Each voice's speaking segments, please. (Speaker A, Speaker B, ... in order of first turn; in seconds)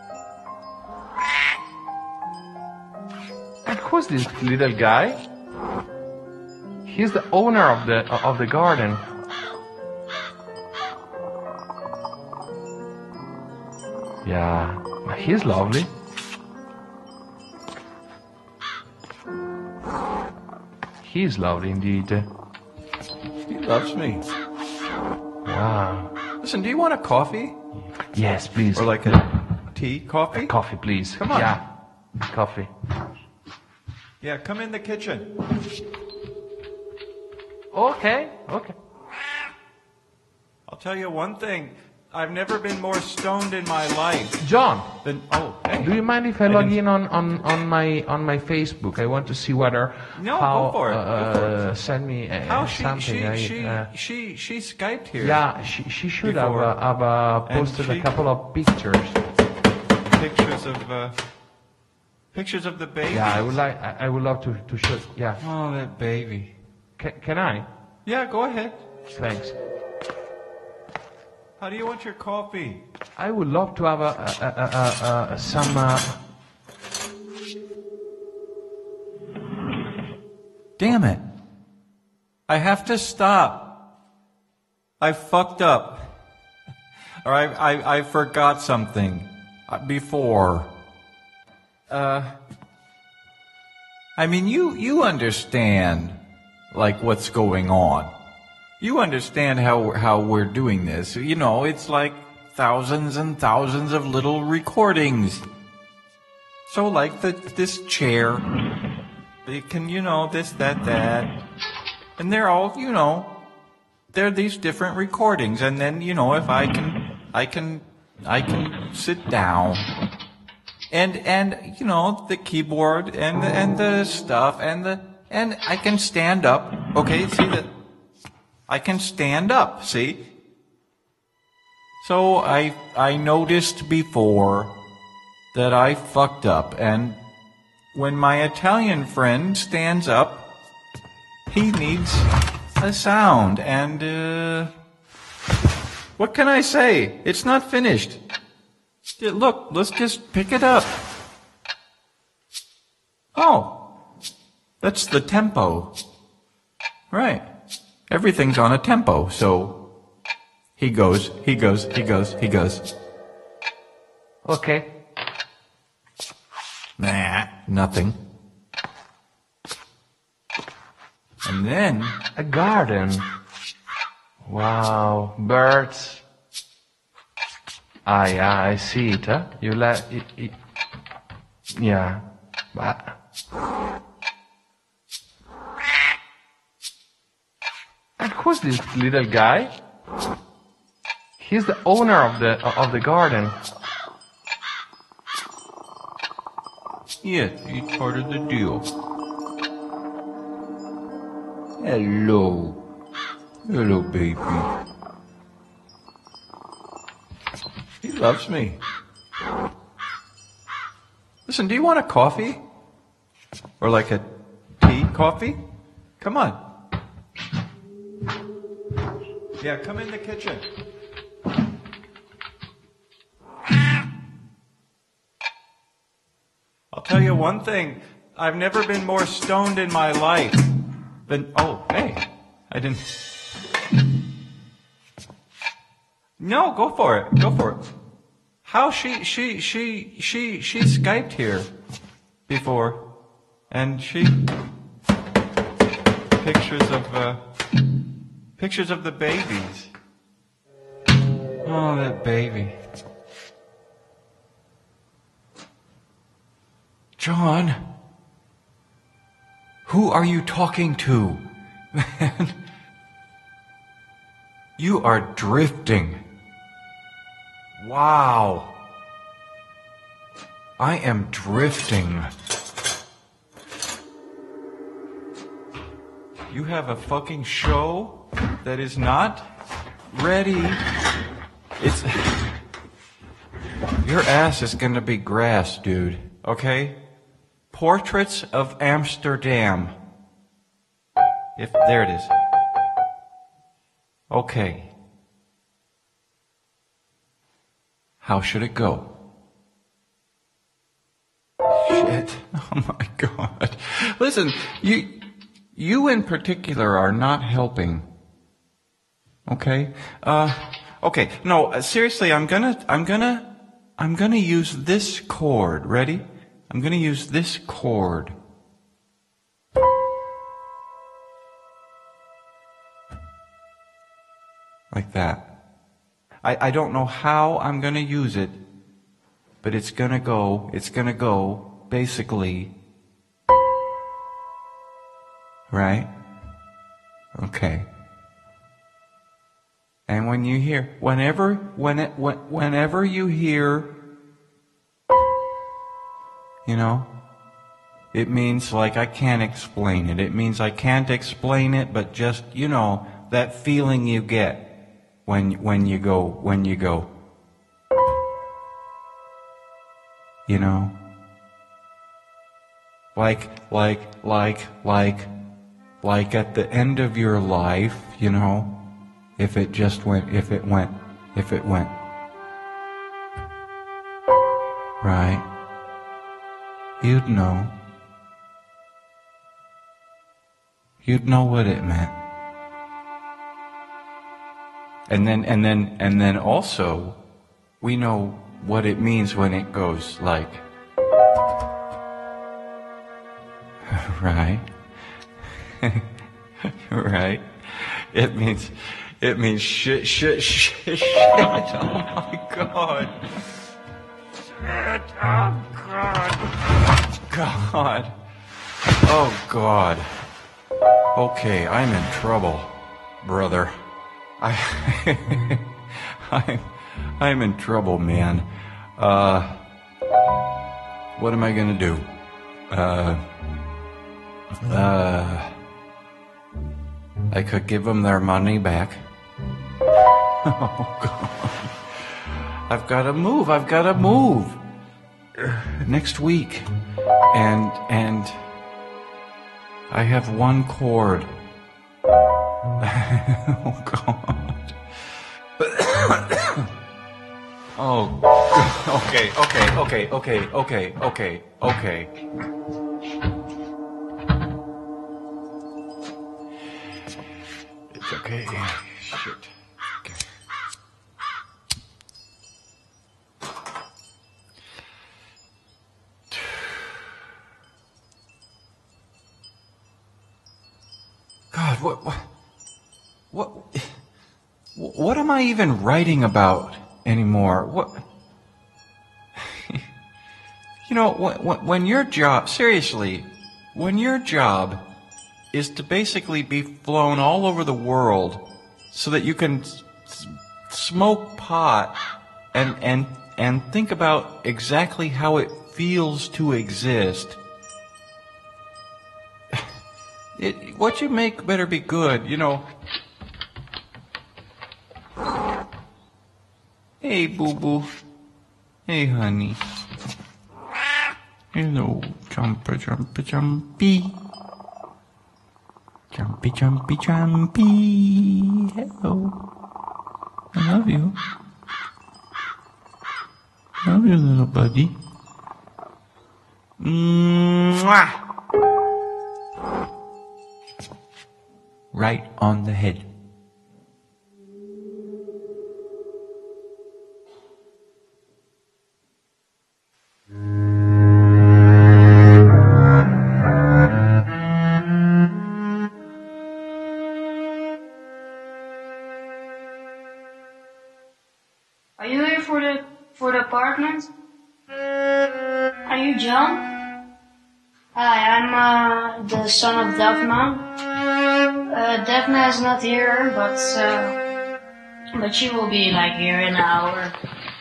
Speaker A: 3.6-5.2, 6.8-9.0, 14.2-15.9, 21.0-22.3, 25.4-26.1, 27.9-29.2, 30.3-31.6, 32.2-32.7, 37.7-38.8, 44.4-44.9, 45.8-53.9, 55.2-59.2, 63.1-65.4, 67.0-67.7, 69.1-69.6, 73.2-76.2, 164.4-164.9, 172.4-173.3, 174.4-176.2, 178.1-180.6, 181.7-183.2, 188.2-189.7, 191.4-193.6
Speaker B: 23.5-24.2, 26.4-27.6, 28.8-30.6, 31.1-31.6, 34.2-35.3, 40.7-44.4, 45.0-45.9, 46.5-46.8, 50.1-51.7, 52.5-55.5, 56.2-56.8, 57.5-58.1, 60.1-61.1, 62.3-63.6, 65.4-66.6, 68.0-68.8, 71.6-72.8, 80.8-81.2, 82.5-83.7, 85.0-86.0, 87.2-90.7, 91.9-92.3, 94.2-96.2, 96.7-98.1, 98.8-105.4, 106.7-108.5, 109.5-111.3, 112.2-113.3, 114.1-119.9, 120.9-127.7, 128.7-130.2, 132.0-134.7, 135.5-137.2, 137.9-140.4, 141.5-144.7, 146.2-148.2, 149.2-150.9, 153.3-153.8, 154.8-155.9, 157.1-157.5, 158.1-159.8, 160.8-162.8, 167.0-168.2, 171.4-172.2, 197.2-198.9, 201.8-202.8, 203.7-204.7, 208.0-208.8, 211.5-212.6, 213.8-215.6, 216.2-216.6, 219.6-220.7, 226.9-230.6, 231.3-233.0, 236.4-237.8, 238.7-241.7, 242.5-243.0, 243.7-244.4, 246.4-247.4, 248.6-249.9, 251.6-252.8, 257.2-257.8, 259.9-261.4, 261.9-262.5, 264.8-266.2, 267.8-268.7, 270.8-272.3, 276.5-279.4, 280.1-280.8, 281.8-282.6, 284.0-287.0, 287.7-289.9, 291.6-292.3, 294.3-294.9, 298.2-299.1, 301.7-305.1, 305.7-308.1, 309.5-318.4, 324.9-325.4, 326.4-328.6, 329.6-332.7, 335.7-336.1, 337.3-337.9, 340.1-343.9, 346.6-347.1, 348.1-354.7, 355.3-357.1, 360.5-360.9, 363.1-365.3, 366.0-368.7, 369.4-371.9, 375.0-375.4, 377.0-377.7, 381.0-382.1, 385.1-387.2, 387.8-390.6, 393.9-394.7, 395.7-396.0, 396.6-403.7, 404.4-406.5, 407.3-408.1, 409.0-410.1, 411.1-413.7, 414.4-419.6, 421.2-422.1, 422.7-423.2, 424.6-425.6, 427.3-429.0, 430.4-431.7, 432.7-434.6, 435.4-436.7, 437.3-438.4, 439.9-441.3, 442.8-444.8, 445.6-446.7, 447.8-452.1, 457.9-460.3, 466.3-466.6, 471.5-472.3, 473.3-474.0, 474.8-478.0, 479.4-479.8, 480.8-484.8, 485.5-492.0, 492.5-497.4, 500.4-502.7, 507.0-507.9, 508.9-509.6, 511.5-514.2, 516.1-519.4, 520.5-521.2, 523.8-524.9, 526.8-528.2, 531.9-533.1
Speaker C: 552.0-554.1, 555.9-556.7, 558.0-560.6, 561.7-564.1, 565.1-567.2